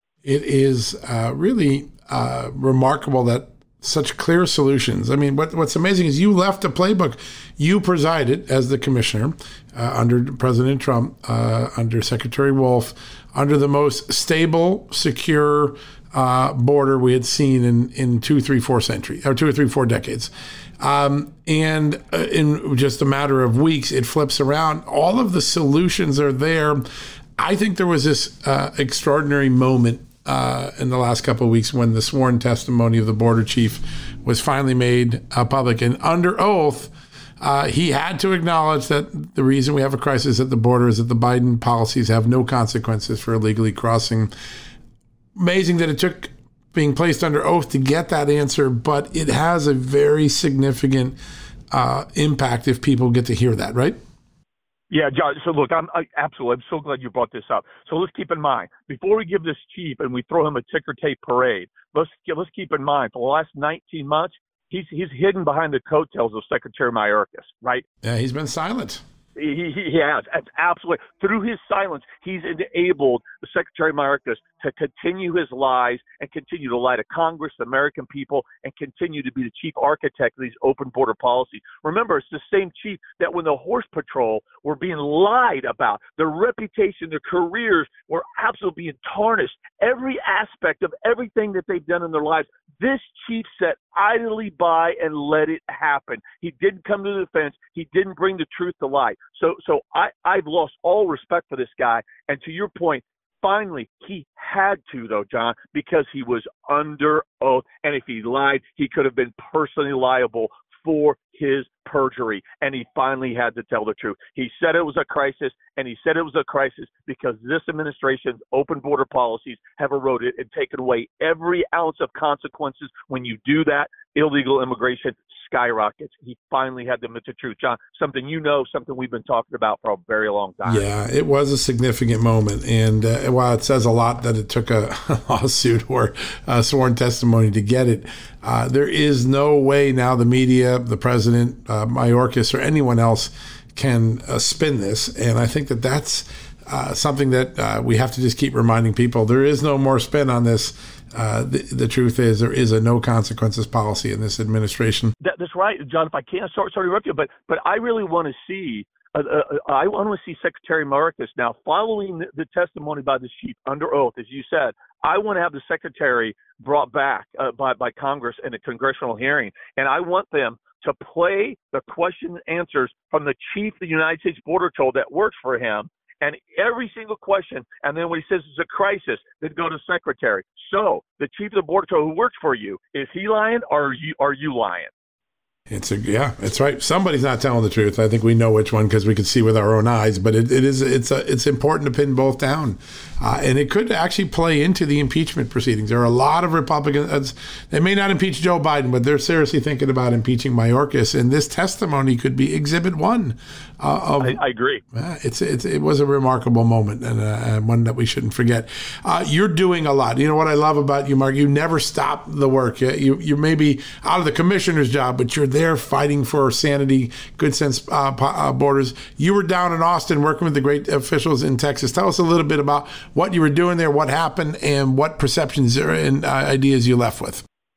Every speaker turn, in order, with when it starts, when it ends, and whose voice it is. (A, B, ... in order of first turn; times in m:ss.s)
0:00.2-0:26.9 A
0:27.4-0:44.3 A
0:45.4-0:51.2 A
0:51.7-0:54.0 A
0:54.9-1:07.8 B
1:08.0-1:09.0 A
1:09.4-2:10.8 B
2:10.6-2:35.1 A
2:35.2-3:04.9 B
3:05.7-3:24.4 A
3:24.2-3:24.8 B
3:24.9-3:47.4 A